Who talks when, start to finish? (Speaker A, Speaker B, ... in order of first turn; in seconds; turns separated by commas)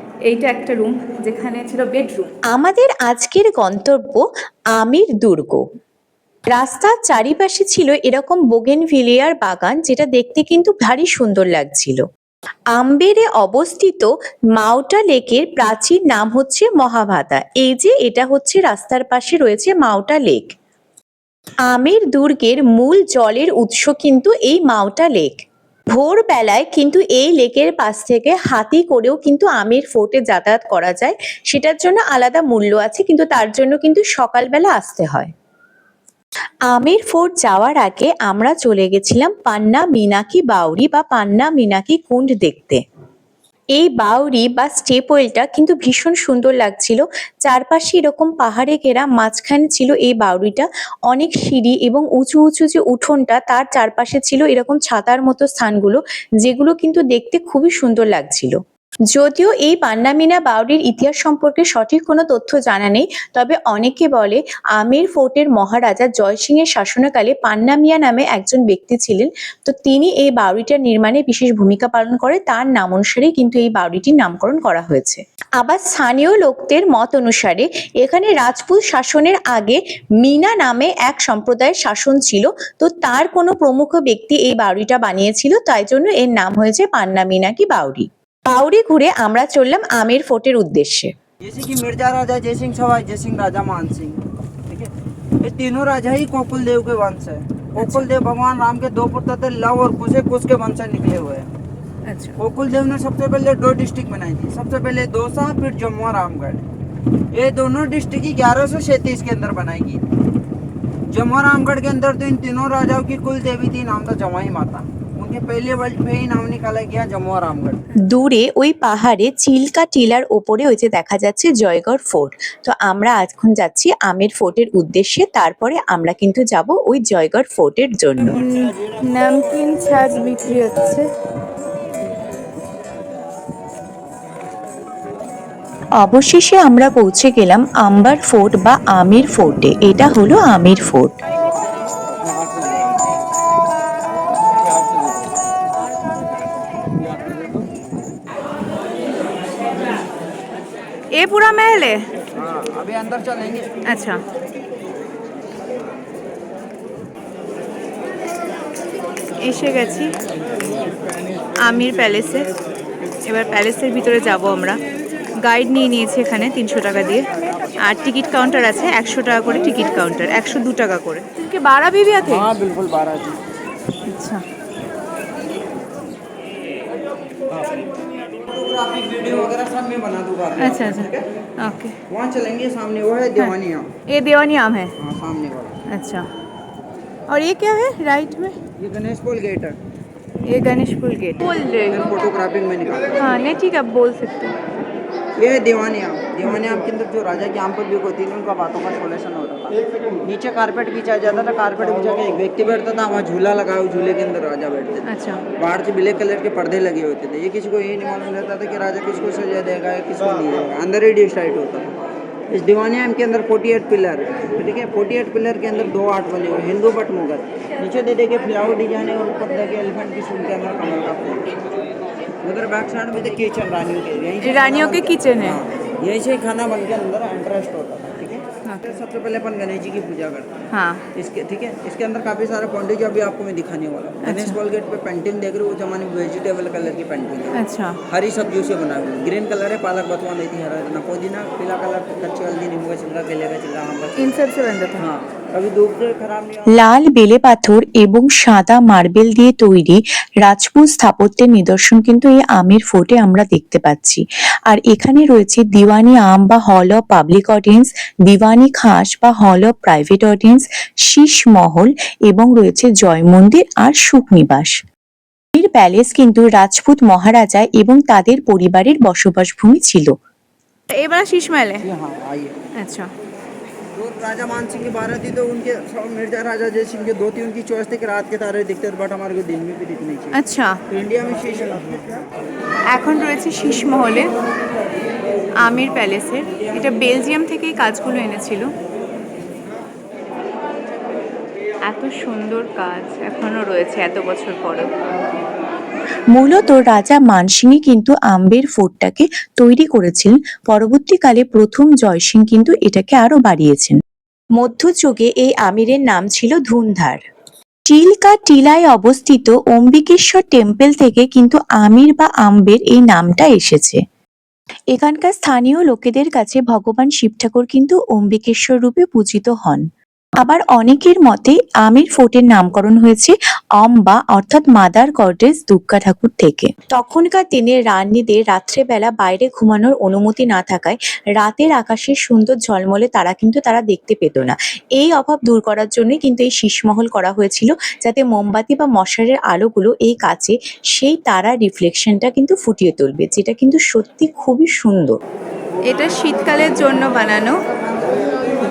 Speaker A: 0.2-2.3, Speaker B: 2.5-5.7, Speaker B: 6.5-12.0, Speaker B: 12.7-20.5, Speaker B: 21.7-25.4, Speaker B: 25.9-35.3, Speaker B: 36.7-42.8, Speaker B: 43.8-58.6, Speaker B: 59.1-91.1, Speaker C: 91.4-101.5, Speaker A: 97.8-98.1, Speaker A: 102.1-102.4, Speaker C: 102.4-106.6, Speaker C: 107.3-110.0, Speaker C: 111.1-117.9, Speaker B: 118.0-128.4, Speaker A: 128.3-131.1, Speaker B: 136.0-141.2, Speaker C: 142.3-142.8, Speaker A: 151.1-152.1, Speaker C: 152.3-153.7, Speaker A: 153.9-154.2, Speaker A: 159.4-160.2, Speaker A: 161.6-162.5, Speaker A: 163.2-164.8, Speaker A: 165.4-172.5, Speaker C: 172.2-173.4, Speaker A: 174.1-174.4, Speaker C: 178.4-181.2, Speaker A: 180.6-182.0, Speaker C: 182.1-183.9, Speaker A: 184.1-184.9, Speaker C: 185.0-185.8, Speaker A: 185.9-186.3, Speaker A: 187.3-188.6, Speaker C: 188.8-189.8, Speaker A: 190.4-192.1, Speaker C: 191.9-193.5, Speaker A: 193.2-194.6, Speaker C: 195.4-205.1, Speaker A: 205.1-205.4, Speaker C: 205.6-212.0, Speaker C: 212.5-221.6, Speaker C: 222.4-230.6, Speaker A: 224.4-225.6, Speaker A: 230.7-231.0, Speaker C: 231.1-244.4, Speaker A: 234.2-234.6, Speaker A: 237.6-238.0, Speaker A: 244.2-245.0, Speaker C: 245.0-246.8, Speaker B: 246.7-264.8, Speaker B: 265.6-270.1, Speaker A: 270.9-271.9, Speaker C: 271.8-272.6, Speaker A: 272.8-273.1, Speaker C: 273.9-280.4, Speaker A: 280.3-280.8, Speaker C: 280.9-282.2, Speaker A: 282.9-284.3, Speaker A: 285.6-288.7, Speaker A: 291.9-294.9, Speaker B: 296.3-304.0, Speaker B: 304.6-307.2, Speaker B: 307.9-314.0, Speaker B: 314.9-319.9, Speaker B: 320.4-345.2, Speaker A: 345.8-347.6